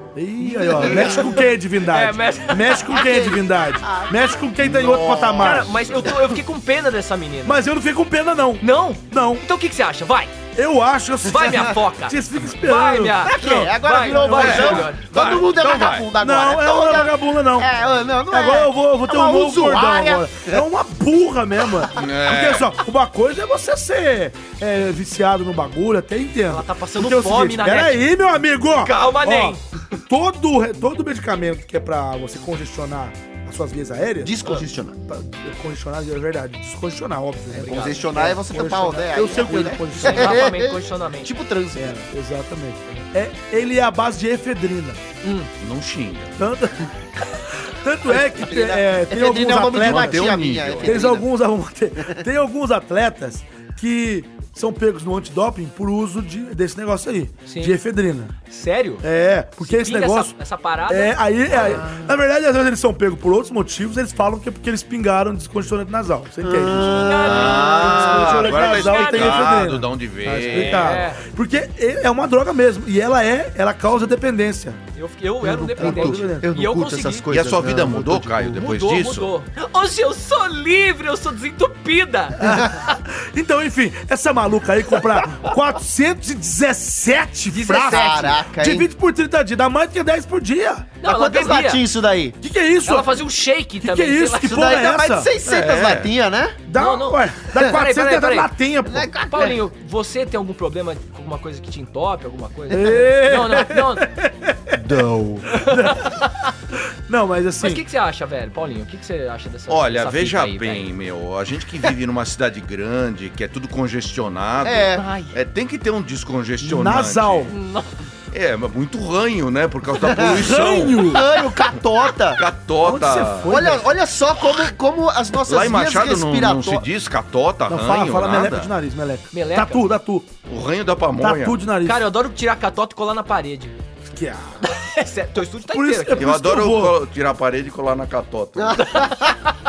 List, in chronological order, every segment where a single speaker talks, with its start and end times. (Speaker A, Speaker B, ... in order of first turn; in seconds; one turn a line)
Speaker A: 0.1-5.7
Speaker B: 0.4-3.0
Speaker C: 0.8-1.2
Speaker C: 2.9-6.3
Speaker B: 5.4-7.6
Speaker A: 7.4-9.4
Speaker B: 8.6-10.3
Speaker A: 10.6-13.5
Speaker B: 11.2-15.1
Speaker C: 13.2-20.6
Speaker A: 14.0-14.9
Speaker D: 14.3-16.1
Speaker A: 16.2-17.7
Speaker A: 18.3-40.5
Speaker D: 21.9-22.7
Speaker B: 26.5-28.1
Speaker B: 28.8-29.6
Speaker C: 34.2-35.0
Speaker B: 37.5-38.1
Speaker C: 37.6-42.0
Speaker B: 40.0-41.3
Speaker A: 41.7-45.0
Speaker B: 45.2-45.5
Speaker D: 45.6-46.4
Speaker A: 46.4-46.9
Speaker A: 47.5-58.3
Speaker C: 48.4-51.3
Speaker D: 49.8-51.0
Speaker B: 57.5-57.8
Speaker B: 58.5-59.0
Speaker A: 59.0-60.4
Speaker B: 59.6-62.0
Speaker A: 60.9-74.8
Speaker C: 61.6-62.0
Speaker C: 66.4-67.6
Speaker B: 67.0-69.5
Speaker D: 67.2-71.0
Speaker B: 70.5-71.2
Speaker B: 75.0-77.3
Speaker C: 75.4-78.7
Speaker A: 75.5-76.5
Speaker D: 77.3-79.3
Speaker B: 78.6-82.9
Speaker A: 82.4-90.9
Speaker B: 87.5-88.4
Speaker C: 87.8-88.9
Speaker B: 91.0-91.8
Speaker C: 91.0-92.4
Speaker A: 92.4-93.2
Speaker B: 92.9-94.7
Speaker A: 93.8-95.3
Speaker C: 94.4-96.6
Speaker D: 95.5-96.1
Speaker A: 96.7-99.1
Speaker B: 96.8-98.5
Speaker C: 98.9-99.6
Speaker B: 99.2-104.1
Speaker A: 102.7-106.2
Speaker D: 104.8-105.5
Speaker B: 105.5-106.3
Speaker A: 107.1-107.8
Speaker B: 107.6-110.9
Speaker D: 109.7-117.5
Speaker C: 114.6-115.1
Speaker B: 115.0-115.3
Speaker A: 116.6-117.5
Speaker B: 117.5-117.9
Speaker D: 118.3-121.2
Speaker C: 120.0-120.4
Speaker A: 120.2-121.3
Speaker C: 121.0-122.4
Speaker D: 122.4-123.5
Speaker A: 122.8-123.9
Speaker C: 123.5-126.8
Speaker D: 125.5-128.7
Speaker A: 127.7-130.3
Speaker B: 129.3-129.9
Speaker D: 130.5-131.6
Speaker A: 131.2-132.1
Speaker B: 131.8-133.8
Speaker A: 134.1-134.6
Speaker B: 134.7-136.3
Speaker A: 135.7-137.0
Speaker D: 136.2-139.0
Speaker C: 138.6-139.4